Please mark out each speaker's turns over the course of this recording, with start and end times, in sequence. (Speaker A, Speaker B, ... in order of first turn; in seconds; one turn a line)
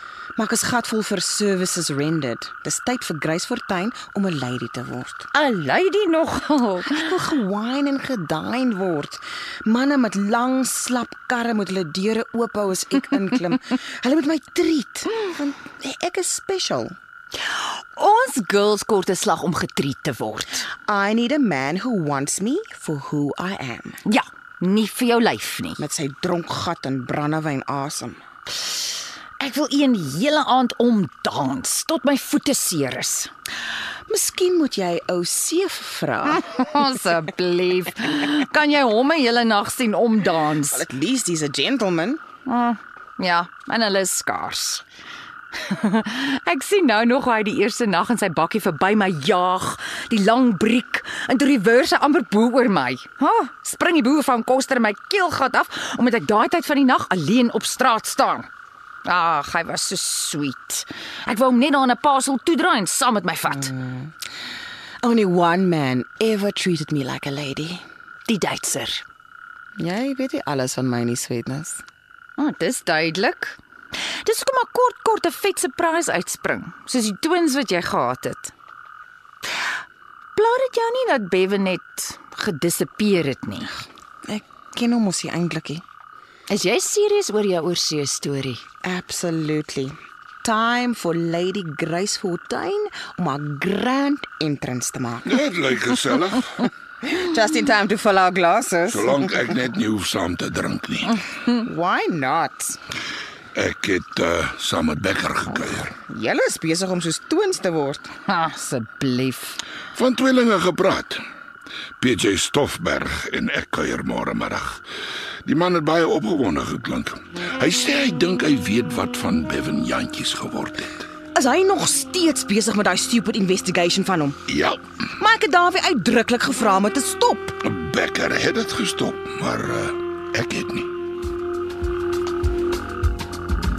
Speaker A: 0.4-5.3
Speaker B: 5.3-7.0
Speaker A: 6.9-16.9
Speaker B: 17.7-20.6
Speaker A: 20.9-24.0
Speaker B: 24.1-25.8
Speaker A: 25.8-28.2
Speaker B: 29.4-33.3
Speaker A: 34.1-36.4
Speaker B: 36.4-40.9
Speaker A: 40.7-42.2
Speaker B: 42.5-44.8
Speaker B: 45.7-58.5
Speaker B: 59.0-63.7
Speaker A: 63.6-64.1
Speaker A: 65.0-67.8
Speaker B: 68.3-69.0
Speaker A: 69.8-71.8
Speaker B: 72.4-73.6
Speaker B: 74.2-78.5
Speaker B: 80.4-83.7
Speaker A: 84.3-85.8
Speaker B: 86.5-88.6
Speaker A: 88.8-95.4
Speaker C: 95.3-96.7
Speaker A: 97.0-99.3
Speaker C: 98.9-101.2
Speaker A: 101.6-102.8
Speaker C: 103.5-106.0
Speaker A: 106.1-108.1
Speaker B: 108.3-109.6
Speaker C: 110.0-111.2
Speaker C: 112.0-114.8
Speaker C: 115.5-121.0
Speaker A: 121.3-124.4
Speaker C: 124.5-124.8
Speaker A: 125.2-127.6
Speaker C: 127.6-130.9